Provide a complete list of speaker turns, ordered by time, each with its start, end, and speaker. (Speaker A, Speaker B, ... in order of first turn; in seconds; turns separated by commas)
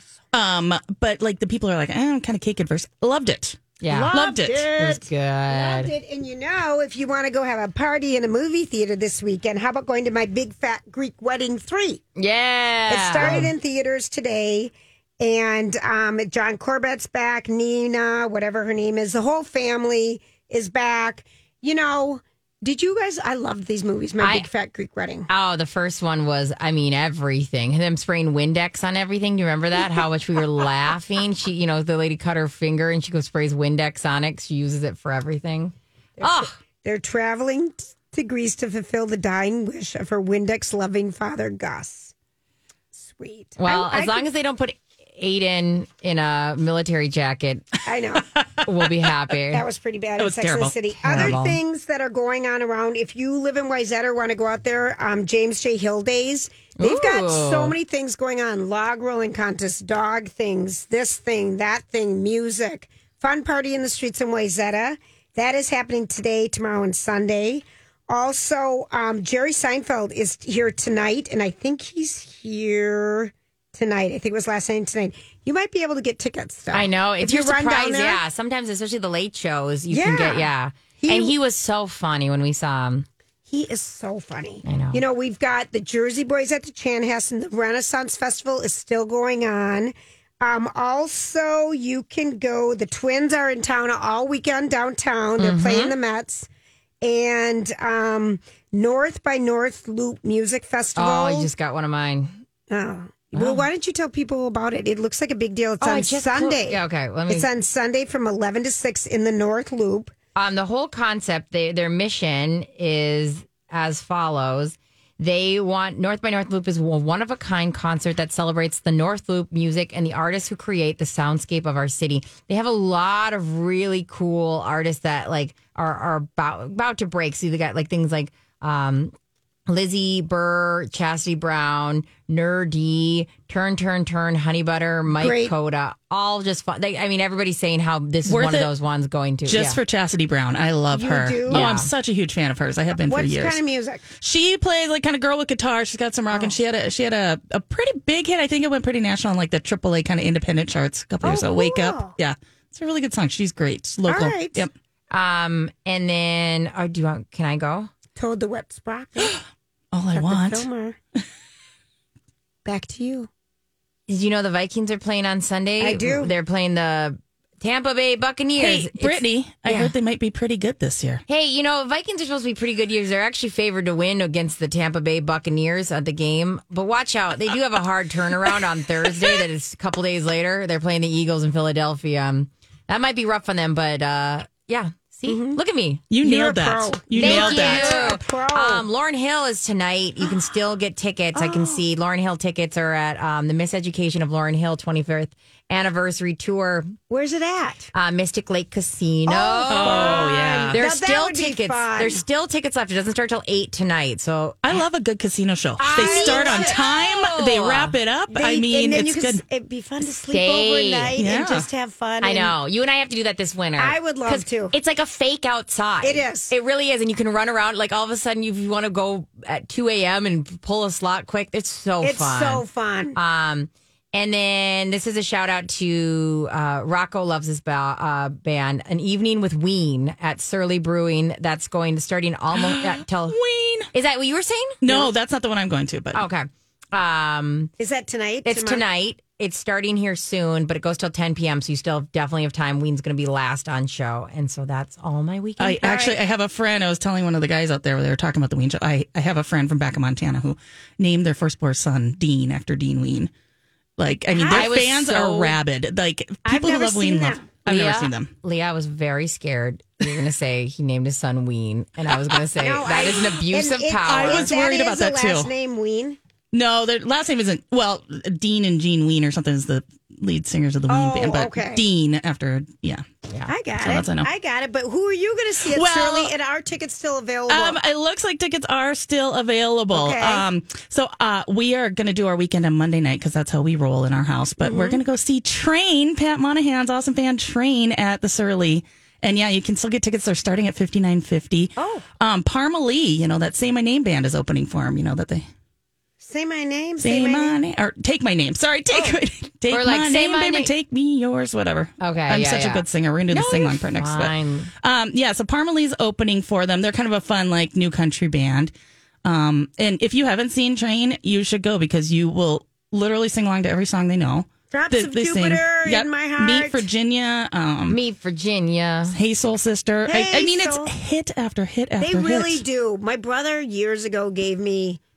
Speaker A: 0.3-4.7, Speaker B: 3.8-4.1, Speaker C: 3.9-12.0, Speaker B: 4.8-5.9, Speaker B: 12.2-13.5, Speaker C: 12.9-25.3, Speaker B: 24.2-24.5, Speaker B: 25.3-36.5, Speaker C: 36.2-42.1, Speaker C: 42.9-44.3, Speaker B: 43.6-47.7, Speaker C: 47.9-48.3, Speaker A: 48.3-48.6, Speaker B: 48.6-49.7, Speaker C: 49.5-78.2, Speaker A: 50.2-51.4, Speaker B: 51.1-51.6, Speaker B: 56.8-57.8, Speaker B: 76.7-83.1, Speaker C: 79.9-81.3, Speaker C: 83.5-96.5, Speaker B: 84.6-85.0, Speaker B: 95.4-96.0, Speaker C: 97.0-101.5, Speaker B: 101.0-102.4, Speaker C: 102.7-110.1, Speaker B: 103.3-103.7, Speaker B: 105.8-107.5, Speaker B: 110.3-129.1, Speaker B: 129.7-139.8, Speaker C: 135.2-135.5, Speaker A: 138.3-138.7, Speaker A: 139.5-143.6, Speaker C: 140.9-141.7, Speaker B: 141.5-141.9, Speaker C: 142.9-144.1, Speaker A: 144.2-154.7, Speaker C: 146.3-146.6, Speaker C: 151.2-152.2, Speaker C: 154.1-154.7, Speaker B: 155.1-157.9, Speaker C: 158.2-159.4, Speaker A: 159.9-160.7, Speaker C: 160.1-161.0, Speaker C: 162.7-163.3, Speaker B: 164.1-169.9, Speaker C: 165.8-166.3, Speaker A: 168.6-171.2, Speaker B: 171.3-186.0, Speaker C: 185.3-185.6, Speaker A: 186.1-188.1, Speaker C: 186.2-188.9, Speaker B: 187.2-196.9, Speaker C: 191.3-191.8, Speaker C: 197.1-197.9, Speaker B: 197.9-204.8, Speaker C: 199.3-202.2, Speaker A: 199.7-200.8, Speaker A: 204.6-209.4, Speaker C: 205.8-206.8, Speaker B: 205.9-207.9, Speaker C: 208.3-212.6, Speaker B: 210.3-211.2, Speaker A: 211.2-211.7, Speaker B: 212.2-233.4, Speaker C: 213.8-214.8, Speaker C: 216.0-216.5, Speaker C: 222.0-223.2, Speaker A: 232.5-233.9, Speaker B: 233.9-234.8, Speaker A: 234.8-236.2, Speaker C: 234.8-235.1, Speaker B: 236.1-237.7, Speaker C: 237.8-238.8, Speaker B: 238.4-246.0, Speaker A: 245.6-253.3, Speaker C: 245.8-246.2, Speaker A: 254.0-258.3, Speaker C: 254.3-254.8, Speaker B: 254.5-255.6, Speaker C: 256.4-257.5, Speaker B: 257.7-264.5, Speaker C: 262.6-266.2, Speaker A: 264.1-265.5, Speaker A: 266.5-273.0, Speaker C: 270.9-271.9, Speaker C: 273.5-277.8, Speaker A: 273.8-274.3, Speaker A: 275.7-276.3, Speaker A: 277.5-295.4, Speaker C: 279.9-280.5, Speaker C: 284.6-285.0, Speaker C: 291.8-292.1, Speaker C: 296.2-297.6, Speaker A: 297.0-308.7, Speaker C: 298.9-299.2, Speaker B: 299.7-300.7, Speaker B: 302.0-304.7, Speaker A: 309.2-318.0, Speaker C: 314.7-316.9, Speaker B: 317.9-319.1, Speaker A: 319.1-322.6, Speaker C: 320.1-320.9, Speaker C: 322.0-325.0